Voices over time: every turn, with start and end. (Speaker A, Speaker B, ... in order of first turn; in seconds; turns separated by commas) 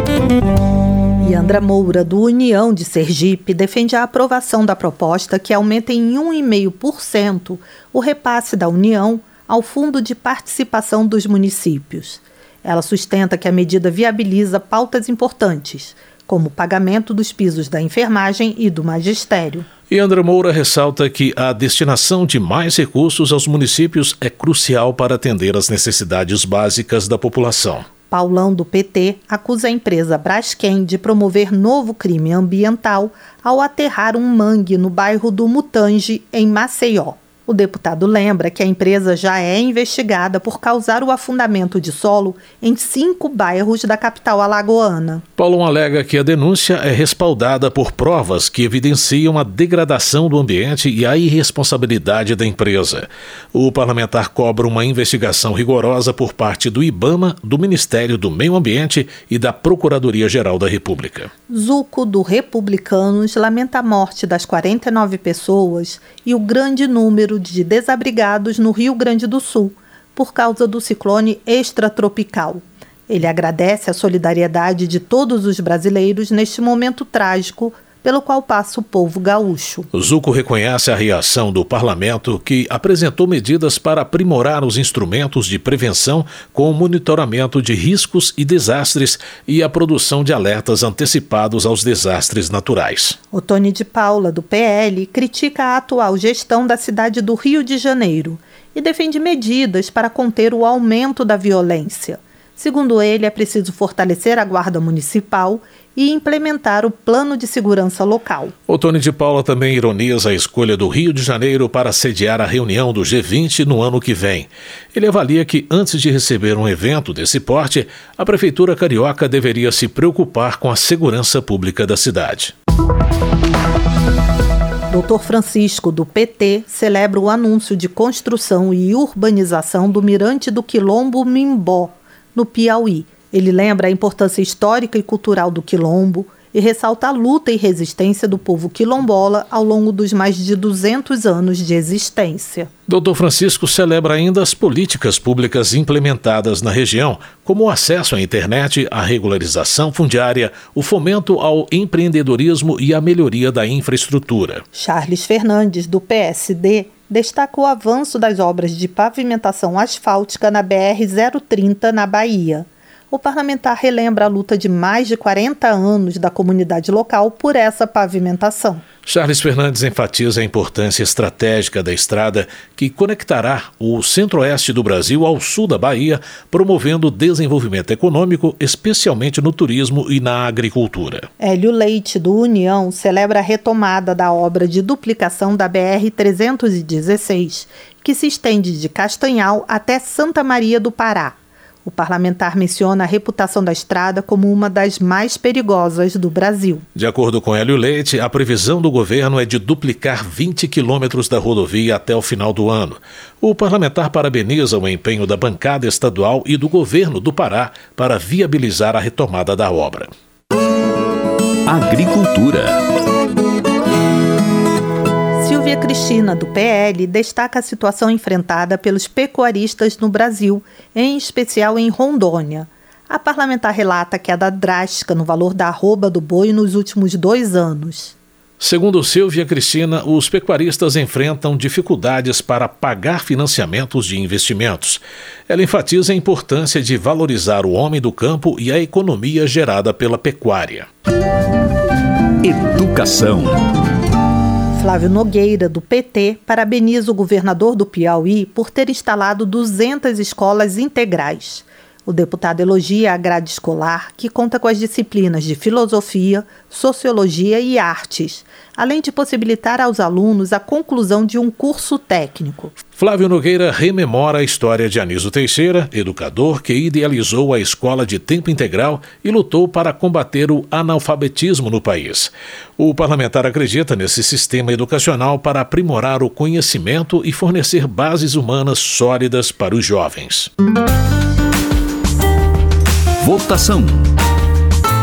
Speaker A: 1.2-19.6, Speaker B: 19.9-27.9, Speaker A: 28.1-45.2, Speaker B: 45.4-61.3, Speaker A: 61.5-79.9, Speaker B: 79.9-93.2, Speaker A: 93.3-108.5, Speaker B: 108.7-122.5, Speaker A: 124.9-142.7, Speaker B: 142.9-154.6, Speaker A: 154.7-168.8, Speaker B: 169.1-181.3, Speaker A: 181.4-196.8, Speaker B: 196.9-210.1, Speaker C: 211.7-212.8, Speaker A: 215.4-228.1, Speaker B: 228.6-240.9, Speaker C: 242.4-243.6, Speaker A: 244.8-262.7, Speaker B: 263.0-280.5, Speaker C: 283.2-284.0